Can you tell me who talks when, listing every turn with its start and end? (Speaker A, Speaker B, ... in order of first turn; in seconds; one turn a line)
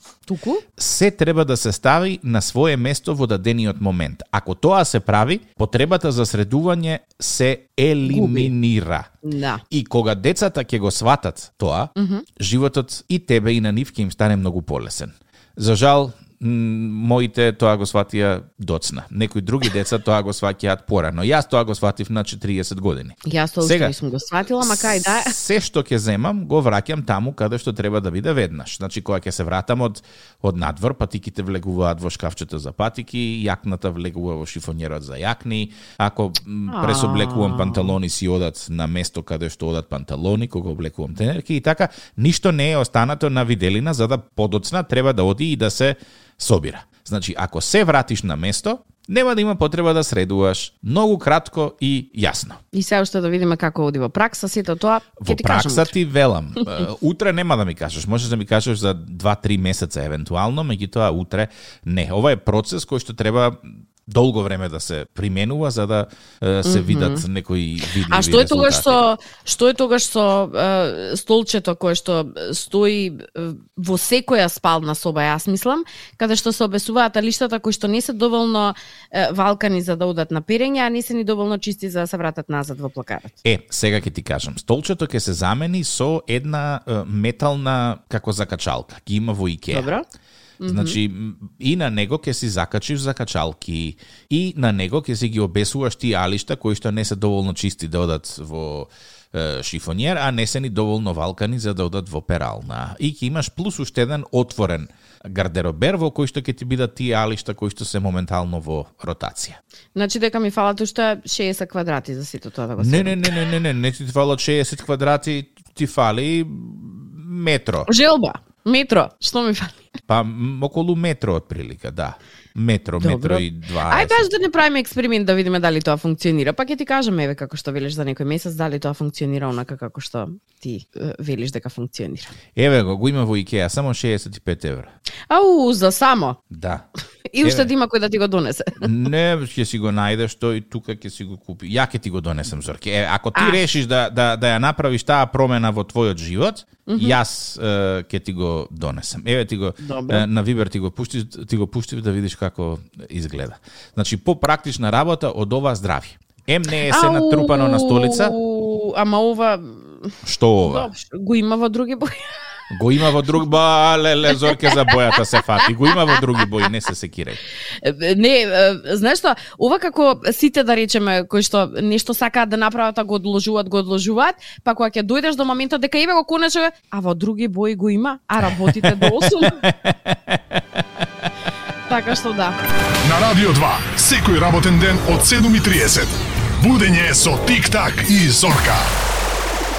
Speaker A: 0.3-0.6
Speaker B: 0.8-9.1
Speaker A: 8.1-8.5
Speaker A: 9.2-9.6
Speaker B: 9.7-23.9
Speaker A: 11.9-12.2
Speaker A: 23.2-25.4
Speaker B: 24.6-52.6
Speaker A: 36.7-37.9
Speaker A: 52.7-55.9
Speaker B: 55.2-69.0
Speaker A: 66.6-67.2
Speaker A: 68.1-83.4
Speaker B: 83.4-89.9
Speaker A: 89.7-90.0
Speaker A: 90.6-91.0
Speaker B: 90.6-109.6
Speaker A: 109.9-113.3
Speaker B: 112.8-117.9
Speaker A: 117.8-119.9
Speaker B: 120.1-124.3
Speaker A: 123.0-132.3
Speaker B: 132.5-134.9
Speaker A: 135.3-136.4
Speaker B: 136.5-136.8
Speaker A: 137.3-138.9
Speaker B: 137.4-137.7
Speaker B: 138.8-158.3
Speaker A: 143.3-143.6
Speaker A: 146.9-147.2
Speaker A: 149.8-150.2
Speaker A: 156.9-162.4
Speaker B: 160.2-160.9
Speaker B: 162.7-167.4
Speaker A: 164.3-164.9
Speaker A: 167.8-179.6
Speaker B: 178.4-180.8
Speaker A: 181.9-182.6
Speaker C: 183.0-188.9